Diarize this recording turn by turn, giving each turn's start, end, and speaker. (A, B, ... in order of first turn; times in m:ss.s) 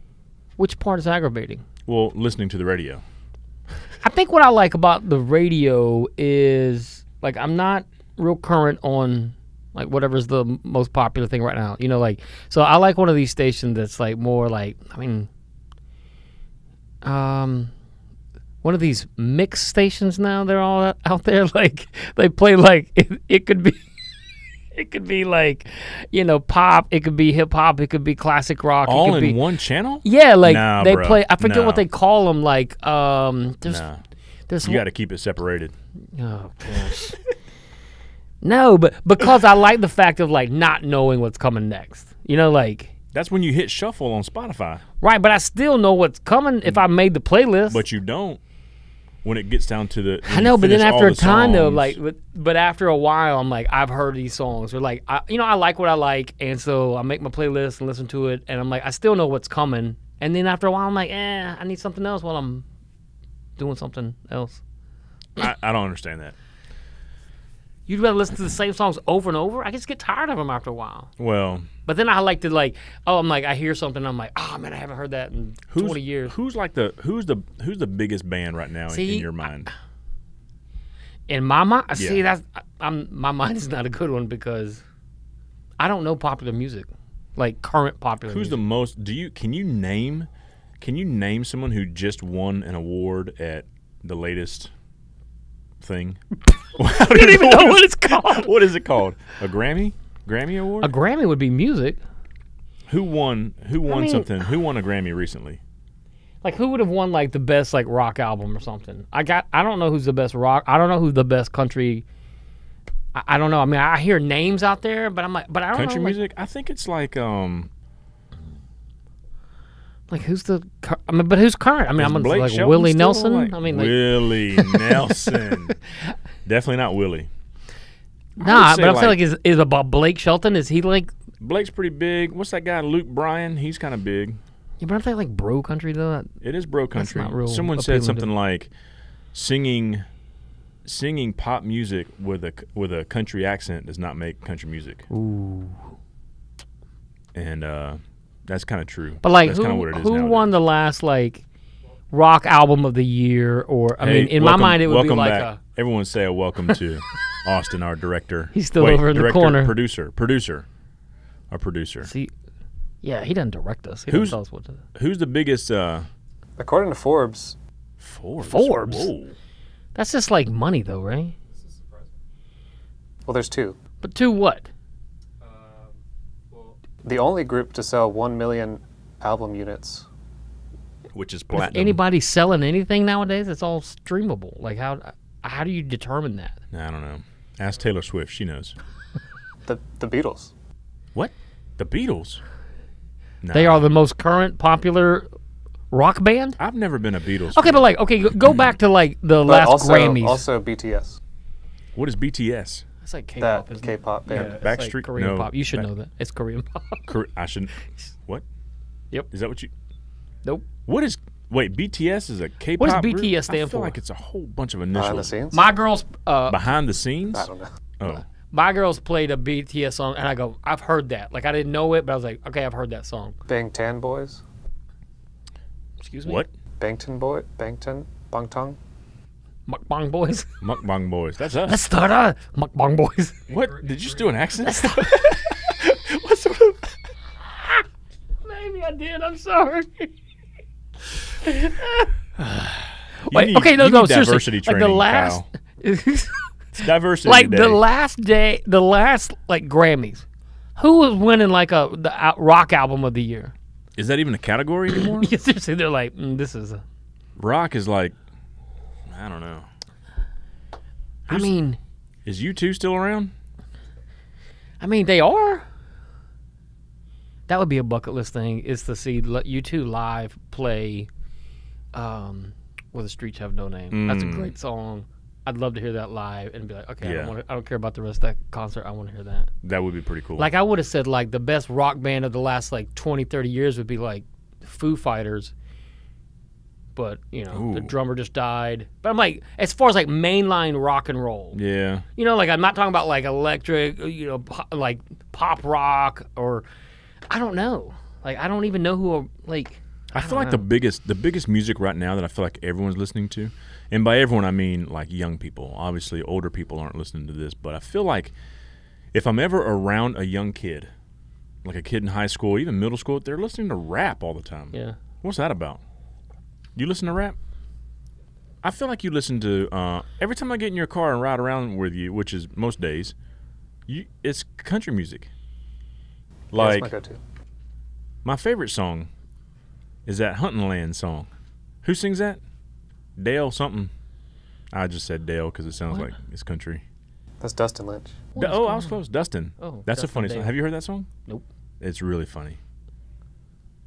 0:00.6-0:01.6 A
0:01.8-0:03.0 B
0:04.0-0:15.3 A
0:17.0-0:17.7 A
0:18.6-0:23.8 A
0:24.7-0:29.4 A
0:28.8-0:31.8 B
0:30.0-0:33.8 A
0:33.6-0:34.0 B
0:34.5-0:34.8 A
0:34.6-0:35.7 B
0:36.1-0:37.2 A
0:38.4-0:42.9 A
0:43.1-0:44.8 B
0:45.0-0:47.8 A
0:47.7-0:48.4 B
0:49.2-0:52.0 B
0:50.2-1:02.6 A
1:03.6-1:04.6 A
1:05.4-1:06.3 B
1:07.9-1:11.1 A
1:11.2-1:11.7 B
1:11.9-1:16.3 A
1:15.7-1:19.7 B
1:18.9-1:19.5 A
1:21.3-1:24.8 A
1:21.9-1:22.2 B
1:25.8-1:28.6 A
1:28.3-1:34.7 B
1:35.8-1:36.2 B
1:36.7-1:40.9 B
1:36.9-1:38.5 A
1:40.8-1:42.0 A
1:42.9-1:45.6 B
1:43.9-1:44.3 A
1:46.4-1:52.0 A
1:53.1-1:56.2 A
1:55.7-1:57.7 B
2:00.1-2:05.6 A
2:02.0-2:05.8 B
2:06.4-2:07.3 B
2:08.4-2:09.2 B
2:08.4-2:11.1 A
2:11.4-2:14.4 B
2:14.8-2:16.3 A
2:16.4-2:18.7 B
2:16.9-2:18.3 A
2:19.3-2:20.0 B
2:20.8-2:25.0 B
2:25.1-2:25.9 A
2:27.3-2:30.6 B
2:29.2-2:31.4 A
2:32.1-2:35.6 A
2:34.0-2:40.7 B
2:38.5-2:39.7 A
2:41.5-2:42.1 B
2:42.0-2:42.3 A
2:43.0-2:44.8 A
2:44.1-2:44.4 B
2:44.9-2:46.1 B
2:46.6-2:47.6 C
2:48.0-2:49.4 B
2:48.4-2:49.1 A
2:49.9-2:51.3 A
2:53.2-2:53.8 C
2:54.0-2:54.7 A
2:57.0-3:00.0 C
3:01.1-3:02.0 B
3:01.5-3:06.6 A
3:06.7-3:08.8 B
3:09.6-3:10.5 C
3:11.1-3:12.4 B
3:13.4-3:13.9 B
3:13.5-3:15.3 A
3:15.9-3:16.6 A
3:16.6-3:17.8 B
3:17.5-3:20.4 A
3:19.4-3:21.2 C
3:21.9-3:22.8 B
3:23.0-3:27.1 A
3:23.4-3:24.6 C
3:24.3-3:25.9 B
3:27.1-3:28.4 B
3:29.3-3:29.7 B
3:30.8-3:35.3 B
3:32.8-3:33.9 A
3:34.9-3:35.7 C
3:35.5-3:36.6 A
3:36.5-3:37.5 B
3:37.3-3:37.7 C
3:38.1-3:43.4 A
3:43.5-3:44.4 C
3:46.0-3:46.4 A
3:46.2-3:46.5 B
3:46.8-3:48.8 C
3:49.7-3:50.6 A
3:50.6-3:51.8 B
3:51.6-3:53.5 A
3:53.5-3:57.0 B
3:54.6-3:55.6 A
3:58.4-4:00.1 A
4:01.4-4:02.1 A
4:02.4-4:05.5 B
4:03.2-4:06.5 A
4:06.8-4:07.8 B
4:07.2-4:10.2 A
4:10.8-4:13.5 A
4:14.0-4:15.3 B
4:14.9-4:16.8 A
4:17.4-4:18.2 B
4:19.1-4:19.7 B
4:21.3-4:21.8 A
4:22.2-4:23.3 B
4:24.8-4:25.6 A
4:27.5-4:31.1 A
4:31.9-4:39.5 A
4:33.9-4:34.5 B
4:37.0-4:37.3 B
4:39.6-4:40.5 B
4:40.4-4:45.5 A
4:47.0-4:51.6 A
4:47.5-4:47.9 B
4:51.5-4:52.0 B
4:52.2-4:56.6 A
4:57.3-5:00.6 A
5:00.1-5:08.3 B
5:09.1-5:10.9 B
5:11.6-5:15.8 B
5:16.8-5:17.4 B
5:18.6-5:23.1 B
5:23.9-5:25.3 B
5:26.5-5:26.9 B
5:26.5-5:27.2 C
5:28.2-5:29.1 B
5:30.0-5:31.3 B
5:31.8-5:32.4 B
5:33.2-5:33.9 B
5:34.7-5:36.8 B
5:37.4-5:38.3 C
5:38.3-5:39.0 A
5:38.4-5:41.1 B
5:39.6-5:40.6 A
5:41.8-5:42.6 B